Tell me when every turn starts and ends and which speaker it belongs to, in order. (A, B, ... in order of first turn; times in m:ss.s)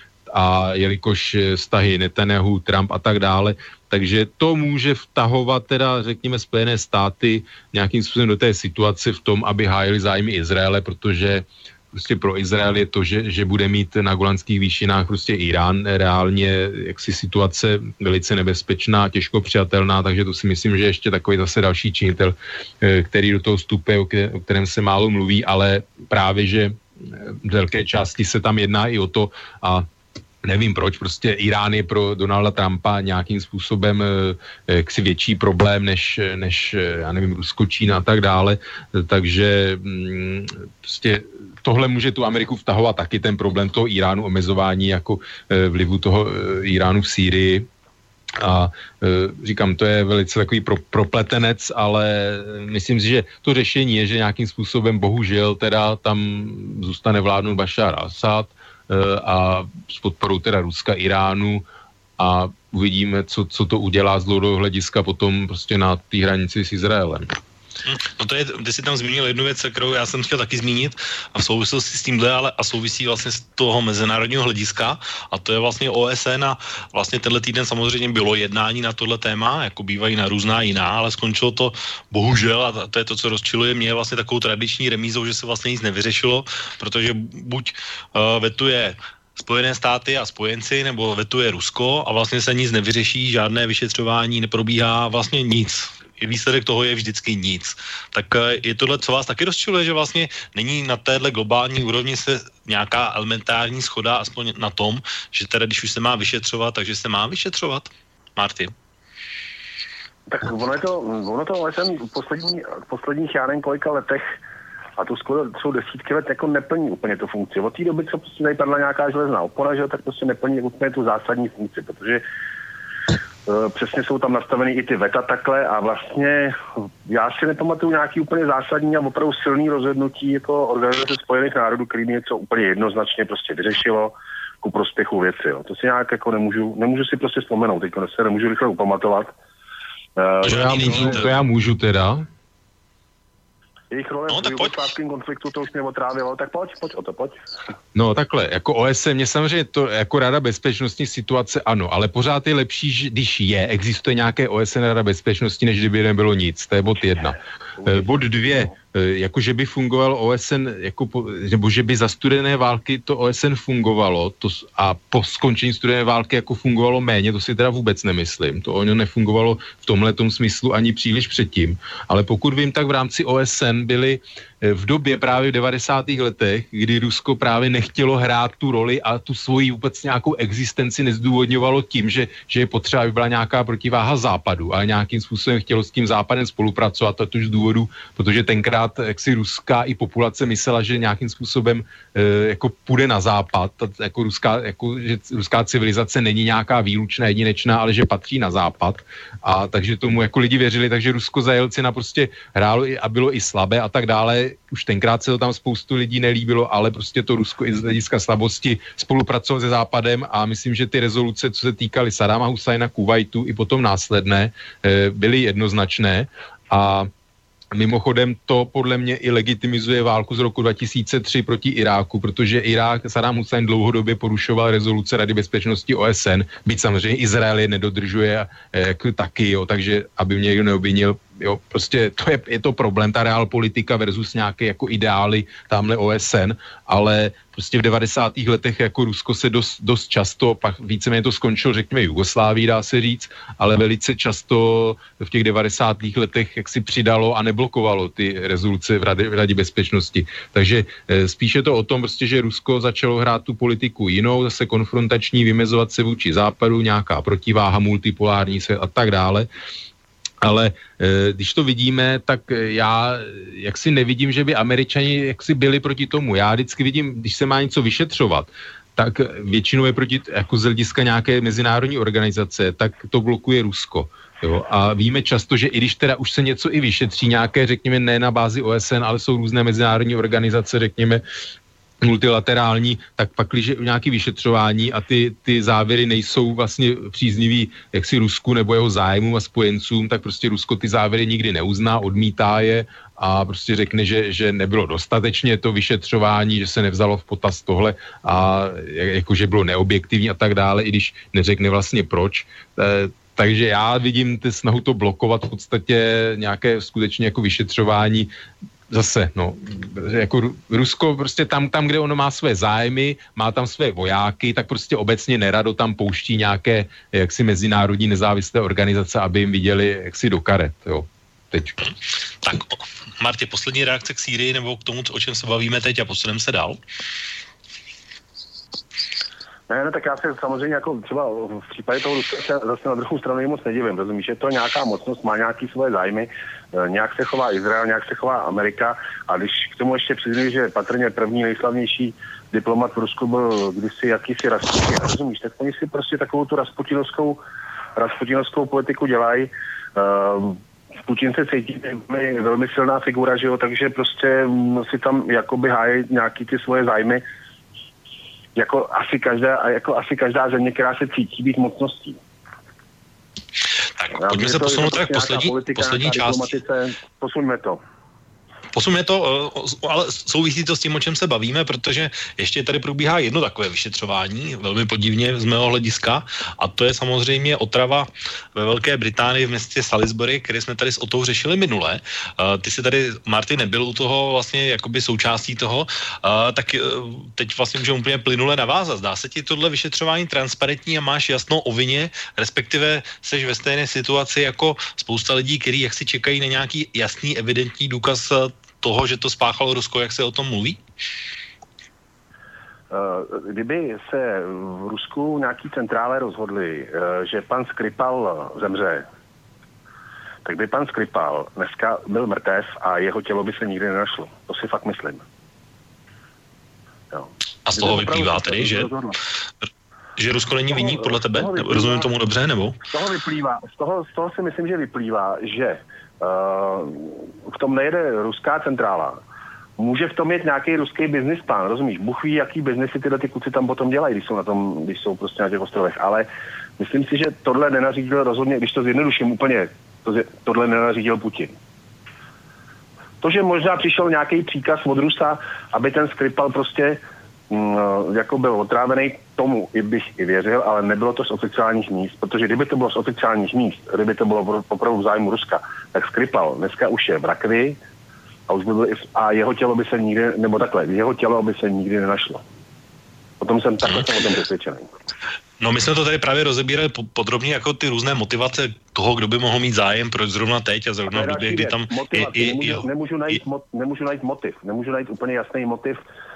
0:00.3-0:29.9 A
0:30.4-0:47.7 A
0:48.4-1:01.6 A
1:02.2-1:07.4 A
1:07.8-1:48.7 B
1:50.3-1:54.3 C
1:55.0-2:02.2 C
2:03.4-2:19.3 C
2:20.2-2:21.2 C
2:20.4-2:21.3 B
2:20.5-2:22.3 A
2:23.9-2:27.4 C
2:24.3-2:24.8 B
2:27.9-3:37.1 A
3:37.7-4:19.5 A
4:20.4-4:41.2 A
4:42.0-5:08.3 A
5:08.9-5:21.9 A
5:22.4-5:26.8 B
5:29.7-5:47.4 C
5:48.0-5:57.2 C
5:58.6-6:02.2 C
6:04.0-6:06.6 B
6:04.1-6:07.8 C
6:08.7-6:40.8 B
6:42.9-6:49.0 C
6:50.4-6:55.2 C
6:57.1-6:59.2 C
6:57.6-6:58.9 B
7:00.2-7:02.8 B
7:00.7-7:02.1 C
7:02.9-7:09.2 C
7:09.8-7:16.3 C
7:16.8-7:21.6 C
7:23.2-7:37.8 C
7:38.5-7:42.4 C
7:43.4-7:44.9 C
7:45.6-7:52.8 B
7:51.1-7:56.0 C